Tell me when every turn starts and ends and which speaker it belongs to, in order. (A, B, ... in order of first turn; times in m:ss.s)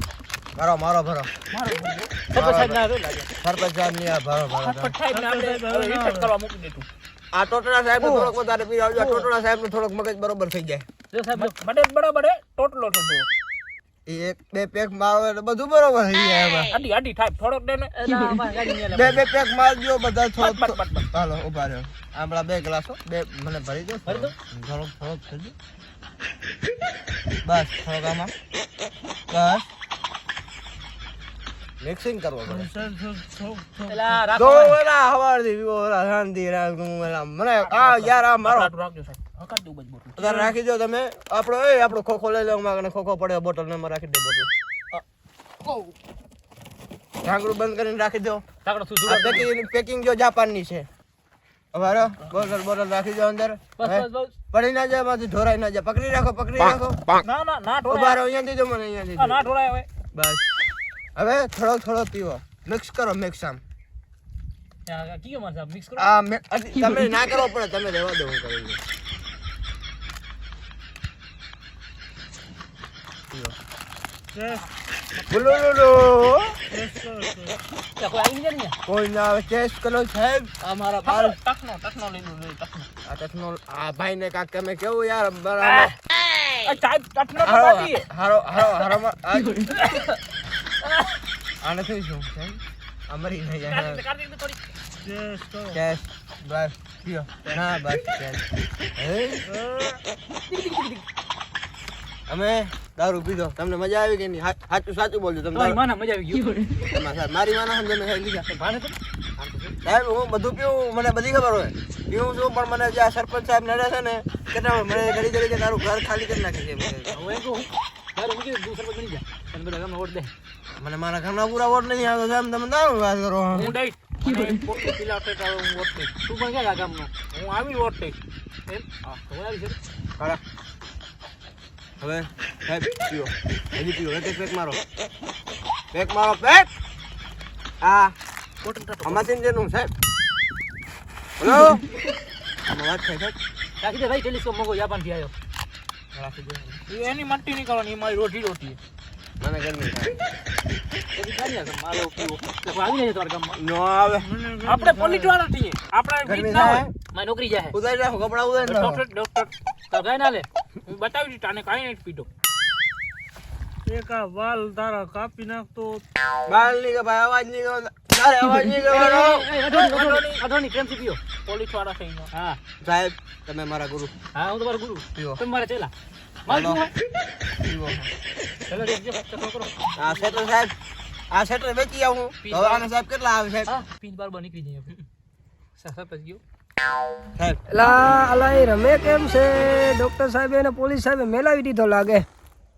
0:00.6-0:01.3 A
0:01.5-0:02.1 B
0:02.3-0:03.3 C
0:02.3-0:02.8 A
0:03.4-0:04.9 A
0:04.6-0:06.9 B
0:05.1-0:06.3 D
0:07.3-0:10.8 A
0:08.9-0:09.3 B
0:11.1-0:11.5 C
0:11.3-0:13.3 B
0:14.1-0:16.7 A
0:16.7-0:17.9 B
0:17.9-0:19.2 C
0:18.9-0:25.5 A
0:20.4-0:21.1 B
0:24.1-0:24.3 C
0:27.4-0:28.3 A
0:29.3-0:29.7 A
0:31.8-0:32.7 A
0:32.5-0:34.3 D
0:33.9-0:34.8 C
0:34.3-0:38.7 A
0:37.6-0:40.6 B
0:40.2-0:45.0 A
0:47.2-0:48.4 A
0:48.6-0:49.5 C
0:49.0-0:50.9 A
0:51.7-0:57.1 A
0:53.8-0:54.2 B
0:57.2-0:58.2 B
0:57.9-0:59.5 A
0:59.2-0:59.9 B
1:00.1-1:00.5 A
1:01.2-1:03.6 A
1:04.9-1:06.1 C
1:06.0-1:08.8 A
1:14.3-1:14.6 D
1:15.3-1:16.6 A
1:16.7-1:17.6 D
1:18.0-1:18.8 C
1:18.9-1:21.4 A
1:20.7-1:22.9 B
1:23.1-1:25.9 A
1:26.6-1:28.1 B
1:27.4-1:29.7 A
1:31.6-1:34.0 A
1:33.7-1:34.5 B
1:35.0-1:35.8 D
1:35.7-1:38.4 A
1:39.0-1:39.4 A
1:39.5-1:40.0 D
1:40.5-1:41.0 C
1:42.3-1:45.8 A
1:45.5-1:46.5 C
1:46.9-1:48.5 A
1:48.5-1:49.8 C
1:49.8-1:57.2 A
1:57.1-2:00.3 C
2:00.8-2:03.7 A
2:03.5-2:03.8 C
2:03.6-2:06.2 B
2:06.2-2:07.1 C
2:07.3-2:08.2 B
2:08.7-2:09.8 C
2:12.0-2:14.8 A
2:15.9-2:16.7 A
2:17.8-2:18.2 A
2:18.6-2:19.2 B
2:19.0-2:19.9 A
2:21.4-2:21.8 A
2:22.7-2:23.4 A
2:23.8-2:25.3 C
2:26.1-2:26.8 A
2:26.9-2:28.8 B
2:29.4-2:30.2 A
2:31.2-2:33.6 C
2:33.6-2:34.3 A
2:34.2-2:35.4 D
2:34.6-2:36.9 B
2:36.2-2:36.9 A
2:37.1-2:37.8 C
2:37.7-2:39.0 A
2:38.6-2:39.5 B
2:39.9-2:40.5 C
2:40.9-2:42.3 B
2:43.9-2:46.0 D
2:46.5-2:49.4 A
2:48.4-2:51.2 C
2:49.6-2:50.4 B
2:51.4-2:52.3 B
2:52.3-2:52.6 C
2:52.8-2:54.1 A
2:54.3-2:55.9 C
2:56.5-2:56.9 C
2:56.5-2:56.8 A
2:57.6-2:58.1 A
2:58.7-2:59.8 C
3:00.0-3:00.7 A
3:01.3-3:03.7 A
3:02.5-3:02.8 B
3:03.7-3:05.0 C
3:05.8-3:06.4 C
3:07.4-3:07.6 A
3:07.7-3:12.3 E